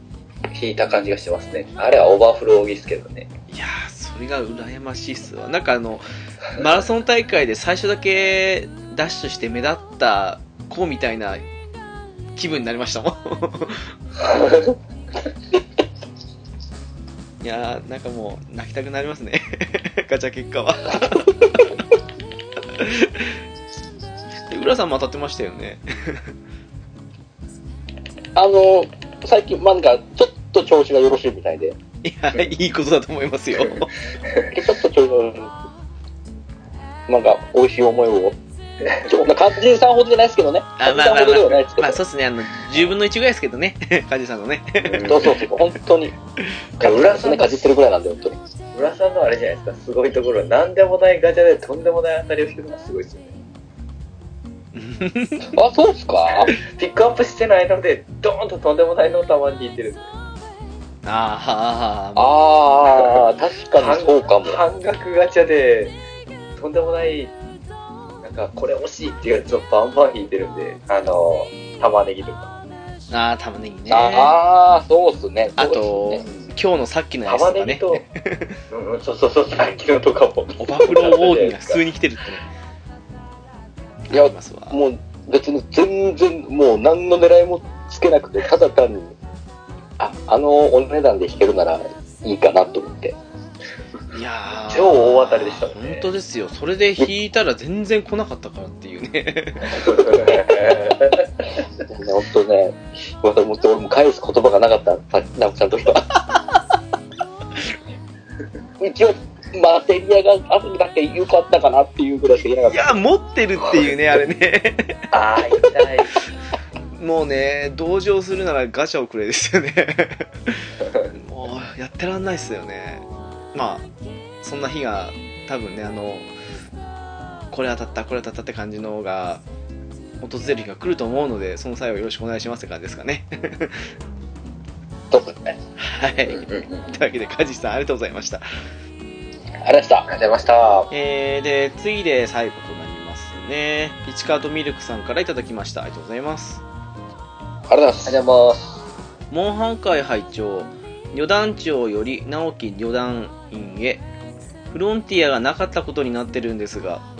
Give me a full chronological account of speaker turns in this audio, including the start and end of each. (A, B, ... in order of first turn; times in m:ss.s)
0:00.5-0:03.3 A
0:03.5-0:11.4 B
0:12.3-0:13.9 B
0:14.2-0:14.7 A
0:17.4-0:21.8 B
0:22.7-0:23.3 B
0:24.5-0:26.2 B
0:28.3-0:31.8 C
0:32.0-0:33.9 B
0:34.5-0:35.5 C
0:37.1-0:38.4 C
0:39.0-0:42.0 C
0:40.8-0:45.2 B
0:44.8-0:45.4 A
0:45.0-0:46.1 C
0:46.8-0:47.7 A
0:46.8-0:48.4 C
0:48.7-0:53.4 A
0:54.7-0:55.6 B
0:55.5-0:56.5 C
0:56.6-1:00.1 A
1:01.0-1:02.4 B
1:02.2-1:04.6 C
1:03.7-1:06.0 A
1:06.6-1:07.3 A
1:08.2-1:12.5 A
1:13.1-1:14.4 B
1:13.9-1:16.2 C
1:15.5-1:18.6 B
1:17.2-1:18.0 A
1:18.7-1:21.8 A
1:20.6-1:22.4 B
1:24.1-1:29.2 C
1:24.1-1:24.8 B
1:30.0-1:33.2 C
1:34.1-1:40.0 B
1:34.7-1:36.1 A
1:39.8-1:41.2 A
1:41.9-1:46.1 C
1:48.8-1:52.9 C
1:52.6-1:55.0 B
1:55.1-1:56.2 A
1:57.0-2:03.9 B
2:04.4-2:06.3 B
2:07.5-2:09.4 B
2:10.2-2:13.8 B
2:15.1-2:15.6 C
2:15.8-2:18.4 B
2:16.3-2:16.9 A
2:19.6-2:20.1 C
2:20.1-2:20.9 A
2:20.9-2:26.6 B
2:27.7-2:28.2 C
2:28.0-2:28.8 A
2:29.3-2:34.0 B
2:34.7-2:37.0 B